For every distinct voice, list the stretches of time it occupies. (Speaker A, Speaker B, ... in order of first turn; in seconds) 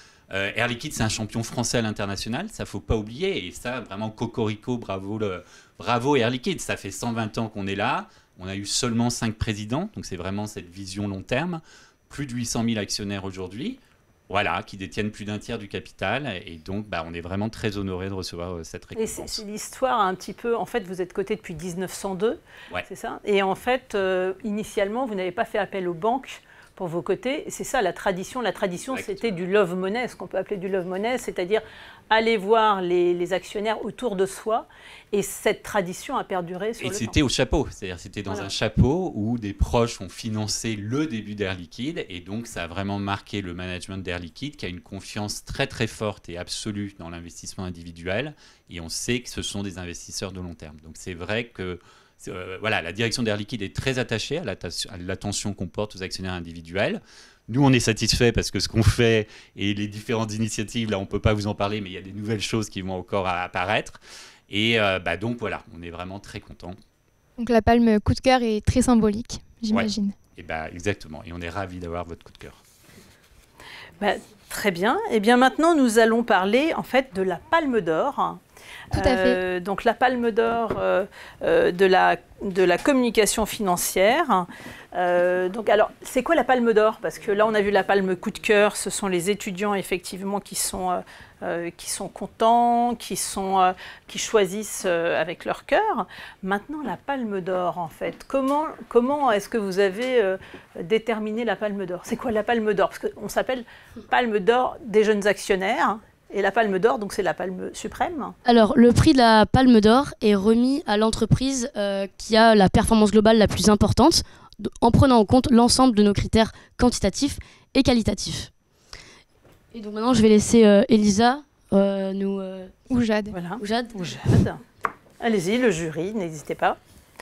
Speaker A: 0.3-19.4, 28.9-29.4, 36.8-66.8, 69.7-72.6
Speaker B: 18.9-37.2, 74.0-78.4, 78.9-108.3, 123.3-124.6, 125.2-126.8
Speaker C: 67.4-70.1, 78.9-79.4, 122.9-123.3
Speaker D: 108.5-118.5, 119.7-122.8, 123.6-124.2